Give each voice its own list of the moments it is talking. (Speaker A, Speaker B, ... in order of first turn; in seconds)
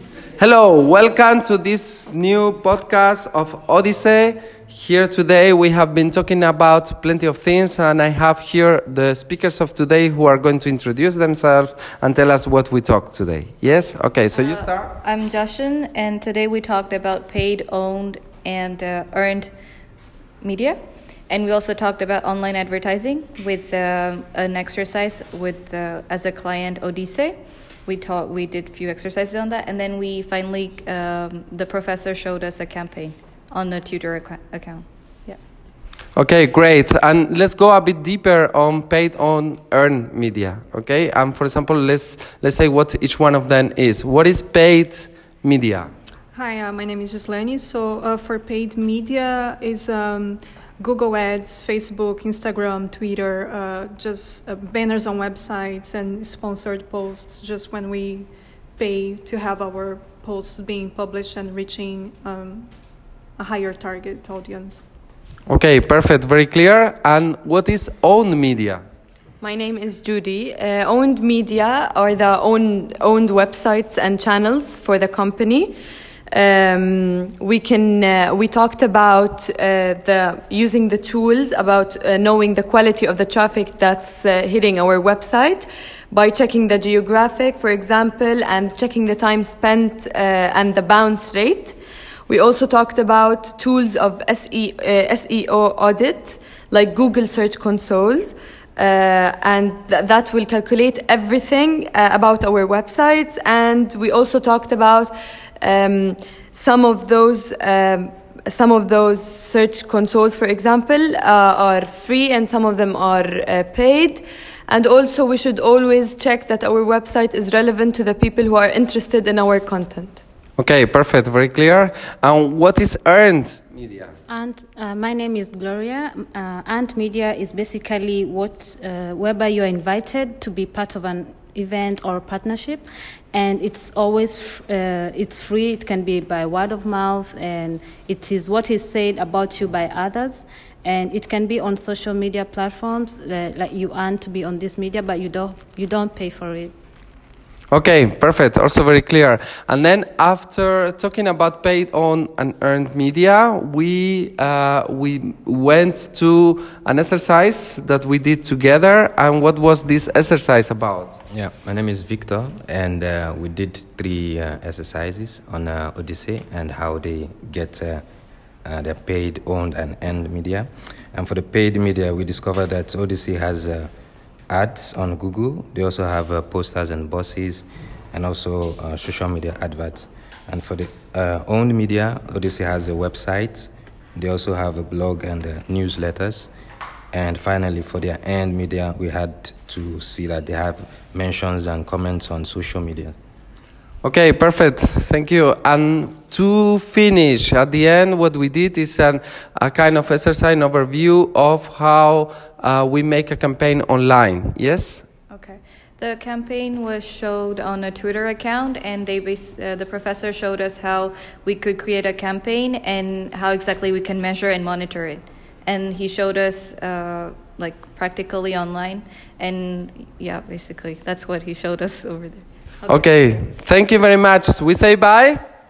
Speaker A: 0.4-14.9, 36.1-45.9, 65.5-68.8, 120.6-124.1, 147.7-161.2, 194.0-205.1, 222.9-225.4
Speaker B: 14.3-19.5, 20.4-20.8, 21.3-35.4, 205.3-223.1
Speaker C: 46.3-64.9
Speaker D: 69.4-75.8, 76.3-91.8, 92.3-120.2
Speaker E: 124.3-146.7
Speaker F: 161.3-168.0, 168.6-173.9, 174.5-186.5, 187.1-193.2